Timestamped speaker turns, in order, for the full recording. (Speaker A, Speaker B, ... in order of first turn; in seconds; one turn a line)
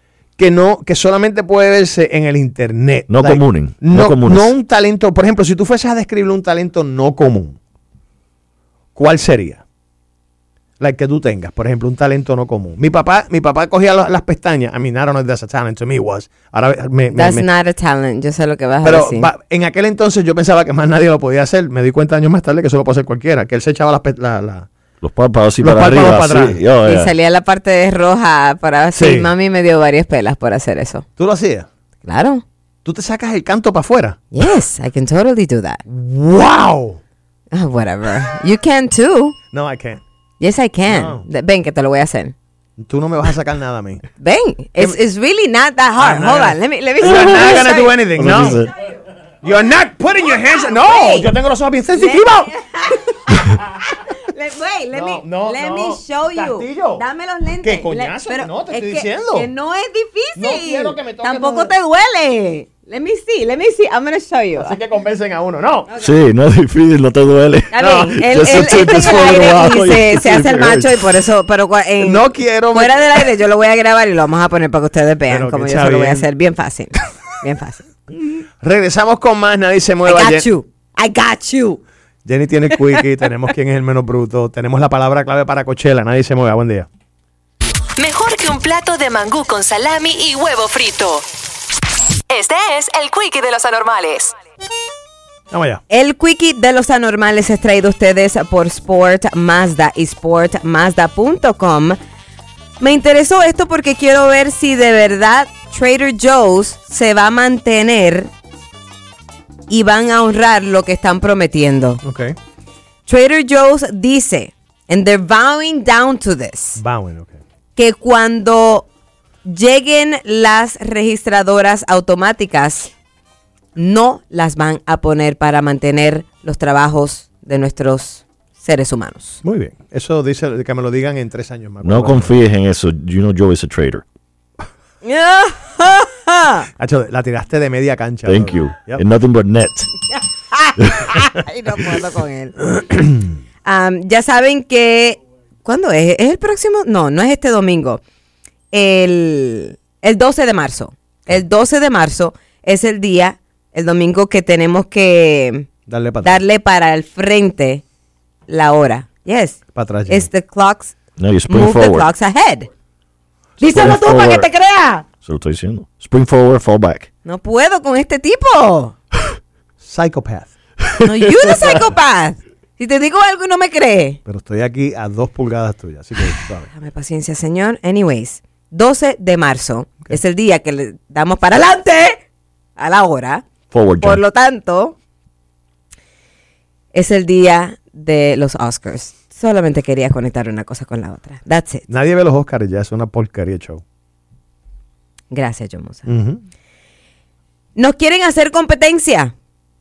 Speaker A: 0.4-7.6
Speaker B: 3.1-4.5
Speaker A: 8.9-9.6
Speaker A: 10.8-17.5
Speaker C: 17.1-19.3
Speaker A: 18.8-24.7
Speaker B: 25.0-27.1
Speaker A: 25.6-26.6
Speaker C: 26.8-31.1
Speaker A: 28.9-29.3
Speaker A: 31.2-31.7
Speaker C: 32.0-32.4
Speaker A: 32.9-34.2
Speaker C: 34.3-35.8
Speaker A: 35.9-37.0
Speaker C: 37.5-39.4
Speaker A: 39.5-40.0
Speaker C: 40.4-42.4
Speaker A: 40.9-41.2
Speaker A: 42.8-44.0
Speaker C: 44.2-48.0
Speaker A: 46.0-48.6
Speaker B: 48.2-48.7
Speaker A: 49.4-52.5
Speaker C: 50.5-51.3
Speaker C: 52.0-53.0
Speaker C: 54.1-64.8
Speaker A: 54.9-57.0
Speaker A: 57.6-59.5
Speaker A: 60.4-61.7
Speaker A: 64.6-65.9
Speaker B: 66.0-71.0
Speaker C: 67.7-77.9
Speaker A: 67.8-68.1
Speaker A: 68.8-69.5
Speaker A: 72.0-73.2
Speaker A: 75.3-76.3
Speaker A: 78.6-80.5
Speaker C: 80.0-81.8
Speaker A: 82.2-86.9
Speaker D: 88.0-91.3
Speaker D: 92.3-94.3
Speaker A: 95.5-95.8
Speaker C: 95.9-102.0
Speaker C: 102.8-108.3
Speaker C: 109.7-112.0
Speaker A: 112.0-112.4
Speaker C: 113.1-116.8
Speaker A: 116.8-117.4
Speaker C: 117.8-118.9
Speaker C: 119.5-122.9
Speaker C: 123.8-129.4
Speaker A: 129.4-132.3
Speaker B: 131.8-134.0
Speaker C: 135.0-136.7
Speaker A: 136.8-139.0
Speaker B: 138.3-139.9
Speaker C: 140.1-142.6
Speaker B: 140.8-141.1
Speaker A: 142.7-143.3
Speaker C: 143.7-148.0
Speaker C: 148.7-155.7
Speaker A: 155.9-156.4
Speaker C: 156.2-157.8
Speaker C: 158.5-160.9
Speaker A: 159.7-160.3
Speaker B: 161.2-162.1
Speaker C: 161.5-162.7
Speaker C: 163.6-165.0
Speaker B: 163.7-164.5
Speaker B: 165.2-167.1
Speaker C: 167.2-168.9
Speaker A: 169.8-170.5
Speaker C: 171.1-174.2
Speaker A: 174.3-176.7
Speaker C: 176.7-182.2
Speaker C: 182.8-183.4
Speaker B: 183.7-184.2
Speaker C: 184.0-185.0
Speaker C: 186.9-191.8
Speaker A: 191.9-193.8
Speaker C: 195.3-196.1
Speaker A: 196.1-196.4
Speaker C: 197.8-199.3